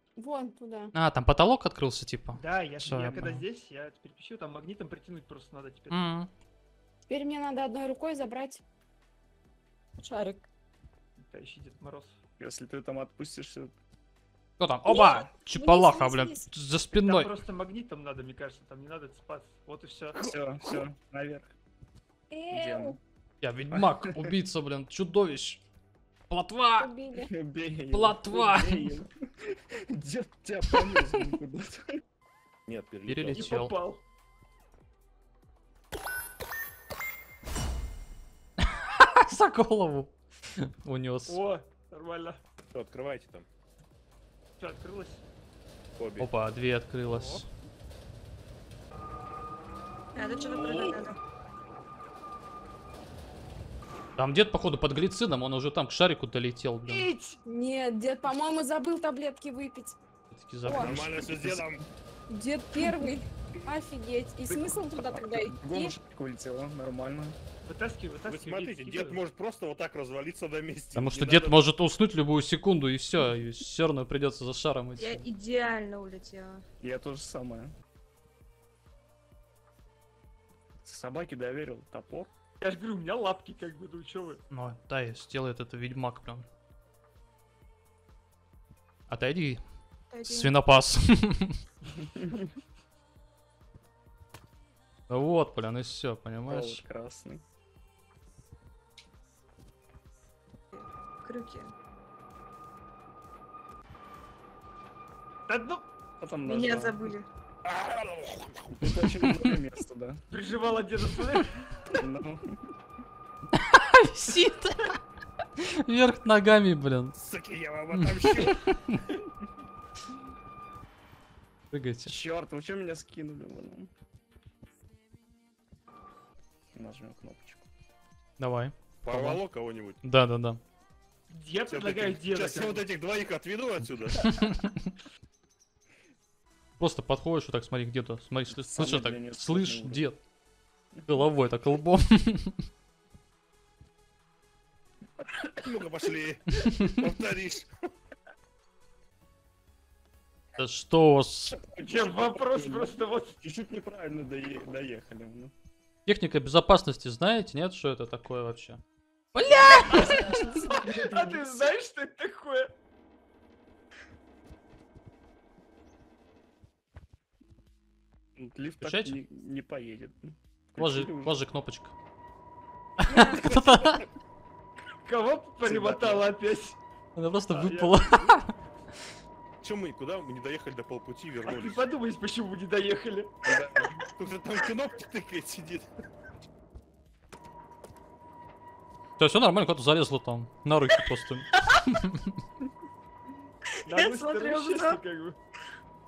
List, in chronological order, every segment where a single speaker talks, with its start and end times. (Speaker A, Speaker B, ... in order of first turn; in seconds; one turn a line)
Speaker A: 0.2-0.9
Speaker B: 0.9-3.4
Speaker C: 2.3-6.0
Speaker B: 5.9-6.3
Speaker A: 7.1-8.6
Speaker A: 10.0-10.4
Speaker C: 11.2-12.2
Speaker D: 12.4-13.7
Speaker B: 14.6-17.3
Speaker A: 14.8-16.5
Speaker C: 17.0-20.2
Speaker D: 20.2-21.5
Speaker A: 22.3-23.0
Speaker D: 22.5-23.0
Speaker B: 23.4-25.6
Speaker D: 23.7-24.3
Speaker B: 26.3-26.9
Speaker A: 26.8-27.3
Speaker D: 27.1-32.0
Speaker B: 27.9-28.9
Speaker E: 32.7-33.6
Speaker B: 33.1-33.7
Speaker C: 33.3-34.0
Speaker B: 38.8-41.4
Speaker C: 41.3-42.4
Speaker E: 42.7-43.5
Speaker C: 44.6-45.2
Speaker E: 46.0-46.3
Speaker B: 46.2-47.5
Speaker C: 47.1-47.4
Speaker F: 50.1-51.2
Speaker B: 54.2-57.1
Speaker C: 56.9-57.4
Speaker A: 57.4-60.0
Speaker B: 60.3-60.9
Speaker A: 60.6-61.0
Speaker D: 60.7-61.9
Speaker E: 60.8-61.8
Speaker A: 62.3-65.9
Speaker D: 64.5-67.4
Speaker C: 67.6-69.2
Speaker E: 68.2-71.6
Speaker B: 70.9-75.3
Speaker F: 75.0-76.6
Speaker D: 76.8-77.7
Speaker D: 80.8-82.3
Speaker C: 82.6-84.4
Speaker B: 84.5-86.5
Speaker B: 89.1-89.6
Speaker F: 90.1-90.6
Speaker B: 90.2-91.6
Speaker D: 92.1-92.4
Speaker B: 95.1-96.8
Speaker D: 96.5-97.4
Speaker F: 100.7-101.7
Speaker C: 105.5-105.9
Speaker D: 106.2-107.1
Speaker F: 106.5-107.3
Speaker E: 107.6-109.0
Speaker D: 108.8-110.2
Speaker C: 110.3-111.6
Speaker D: 111.9-112.6
Speaker B: 113.5-115.0
Speaker B: 115.6-117.2
Speaker E: 117.2-118.8
Speaker B: 117.9-119.0
Speaker B: 121.7-122.1
Speaker D: 122.0-123.9
Speaker D: 126.7-127.7
Speaker B: 128.4-129.4
Speaker E: 129.0-130.0
Speaker B: 130.0-130.6
Speaker C: 131.3-132.9
Speaker E: 131.7-134.3
Speaker B: 134.2-134.9
Speaker B: 136.8-140.2
Speaker D: 138.5-140.1
Speaker B: 141.1-142.6
Speaker D: 145.2-145.8
Speaker E: 145.6-147.7
Speaker B: 150.6-151.6
Speaker D: 151.5-155.5
Speaker C: 151.8-153.3
Speaker B: 156.1-158.8
Speaker B: 159.3-160.4
Speaker D: 159.8-161.7
Speaker C: 160.0-162.7
Speaker D: 168.3-171.4
Speaker B: 168.8-169.2
Speaker B: 170.8-171.9
Speaker B: 173.0-174.1
Speaker F: 173.1-173.4
Speaker E: 173.3-173.9
Speaker C: 175.0-176.8
Speaker D: 175.6-176.3
Speaker B: 177.1-178.5
Speaker C: 177.5-178.4
Speaker E: 179.6-181.8
Speaker C: 181.4-183.3
Speaker D: 183.4-184.0
Speaker E: 184.2-185.9
Speaker B: 189.2-192.3
Speaker F: 193.7-195.0
Speaker C: 193.8-195.4